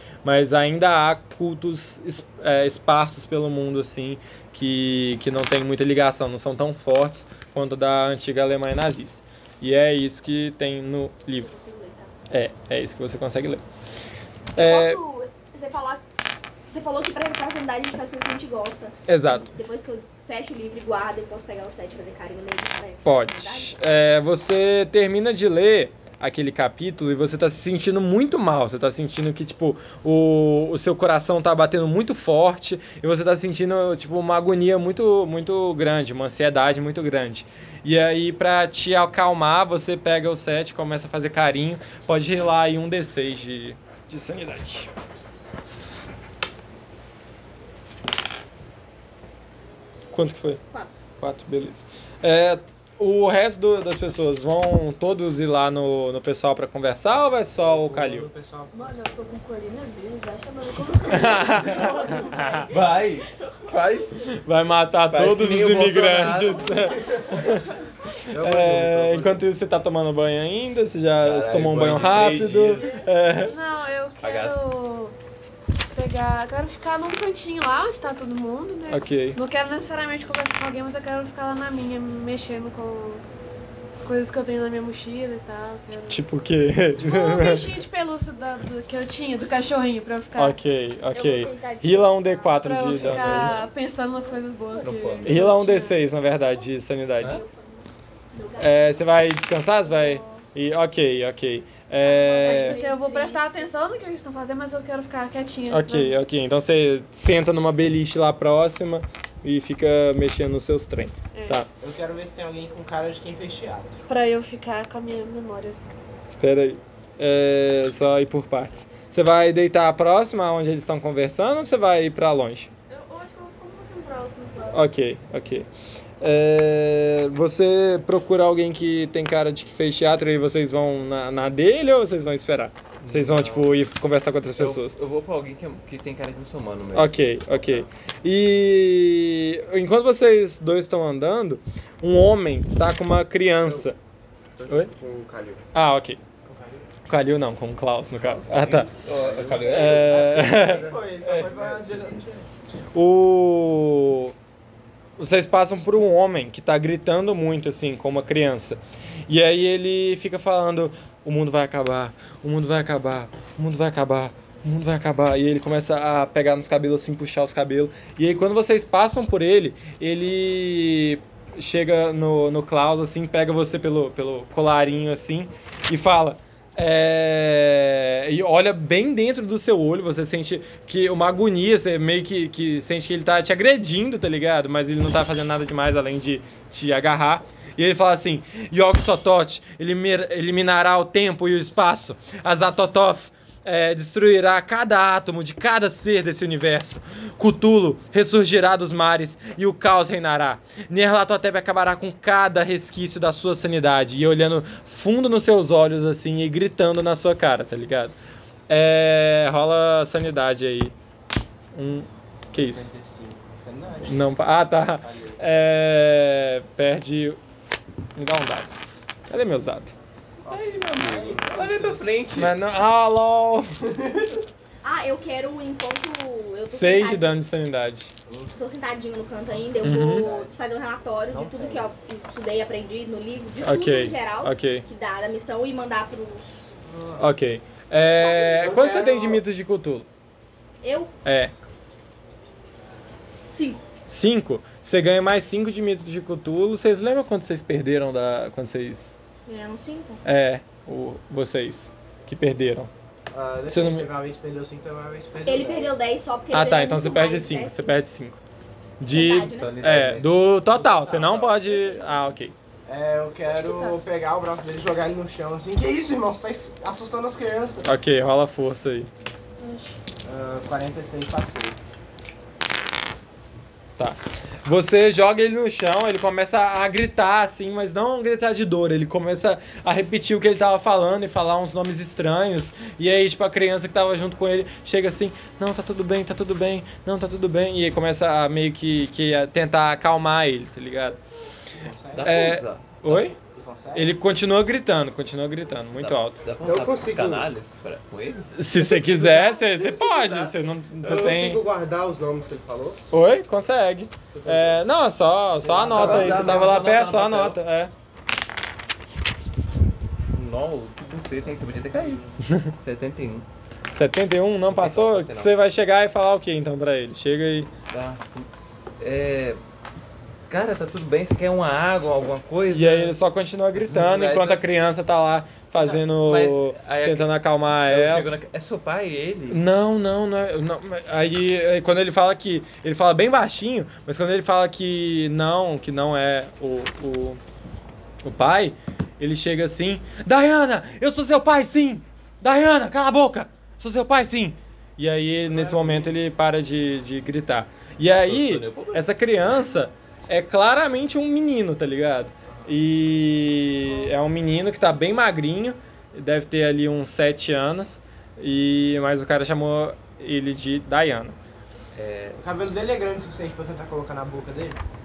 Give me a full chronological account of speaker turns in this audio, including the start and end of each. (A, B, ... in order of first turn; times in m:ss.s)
0:00.2-0:11.5 A
0:11.3-0:12.1 B
0:12.3-0:13.6 A
0:14.6-0:15.0 A
0:14.6-0:16.0 B
0:16.7-0:23.7 B
0:19.1-0:19.5 A
0:23.0-0:44.9 A
0:50.1-0:50.6 A
0:50.7-0:51.0 B
0:51.2-0:58.3 A
0:57.6-0:59.3 C
0:58.7-1:02.7 D
1:01.1-1:02.7 A
1:02.7-1:04.3 E
1:04.2-1:07.8 A
1:05.1-1:07.2 E
1:08.3-1:13.5 A
1:08.3-1:09.4 F
1:11.2-1:13.0 E
1:13.4-1:15.2 D
1:14.2-1:14.6 E
1:15.9-1:23.2 D
1:18.9-1:19.4 A
1:24.0-1:26.2 D
1:26.1-1:27.8 A
1:27.0-1:30.6 D
1:30.4-1:33.6 A
1:31.1-1:33.5 B
1:32.6-1:36.0 D
1:33.0-1:33.6 E
1:34.2-1:34.4 B
1:34.8-1:35.4 E
1:35.2-1:37.4 A
1:37.2-1:39.3 B
1:38.6-1:42.8 A
1:39.9-1:40.4 B
1:42.0-1:43.7 B
1:42.4-1:46.2 D
1:45.7-1:51.7 A
1:51.3-1:51.6 D
1:51.8-1:54.0 C
1:54.1-1:55.9 D
1:56.4-2:02.7 A
2:02.9-2:04.8 D
2:04.7-2:05.7 A
2:06.2-2:15.0 A
2:13.0-2:13.7 E
2:14.6-2:17.9 E
2:16.9-2:24.0 A
2:24.6-2:25.6 F
2:25.7-2:26.2 A
2:26.4-2:26.9 C
2:27.1-2:28.9 A
2:28.5-2:30.2 E
2:29.0-2:31.0 F
2:29.7-2:30.9 A
2:29.9-2:32.4 C
2:31.2-2:31.7 E
2:32.9-2:34.3 A
2:35.2-3:28.2 A
3:28.7-3:30.9 A
3:31.7-3:32.9 A
3:32.6-3:35.4 C
3:34.0-3:37.4 A
3:38.2-3:38.7 A
3:39.3-3:39.9 A
3:40.4-3:42.1 C
3:40.5-3:42.6 E
3:42.4-3:43.7 A
3:44.8-3:47.4 B
3:46.6-3:48.1 A
3:48.3-3:48.5 C
3:48.5-3:56.7 B
3:49.5-3:50.6 C
3:49.8-3:50.3 A
3:51.3-3:51.9 C
3:53.6-3:54.9 A
3:56.8-3:57.3 C
3:57.2-4:00.1 A
3:58.2-3:59.1 B
3:58.6-3:59.4 C
4:00.8-4:01.1 B
4:01.2-4:01.5 A
4:03.5-4:03.8 B
4:04.1-4:09.1 A
4:09.5-4:10.2 B
4:10.2-4:12.9 A
4:13.3-4:16.0 C
4:13.7-4:14.1 A
4:15.4-4:18.0 B
4:16.5-4:18.4 A
4:19.0-4:22.6 A
4:19.1-4:19.8 B
4:19.6-4:20.4 E
4:20.7-4:21.6 C
4:21.7-4:22.2 B
4:22.9-4:27.9 C
4:23.5-4:24.0 D
4:27.8-4:29.1 A
4:29.6-4:30.0 D
4:30.2-4:31.8 C
4:34.0-4:51.2 A
4:51.8-4:52.6 C
4:52.1-4:53.2 E
4:52.2-4:53.4 A
4:53.4-4:54.2 C
4:53.9-4:56.4 A
4:56.0-4:58.5 E
4:56.6-4:57.5 F
4:58.6-5:01.6 A
4:59.9-5:00.5 E
5:01.0-5:03.0 F
5:03.1-5:07.9 A
5:04.4-5:04.8 F
5:05.6-5:06.8 C
5:05.9-5:07.6 E
5:06.0-5:06.5 F
5:10.3-5:12.3 E
5:12.4-5:12.7 A
5:12.8-5:13.5 E
5:13.9-5:17.7 A
5:14.7-5:15.5 E
5:17.9-5:19.6 E
5:20.5-5:23.2 E
5:22.7-5:28.3 A
5:23.8-5:24.6 E
5:25.8-5:29.6 E
5:29.5-5:37.4 A
5:38.2-6:01.4 A
5:45.5-5:46.2 C
5:48.2-5:49.1 E
6:02.0-6:02.4 E
6:02.4-6:04.8 C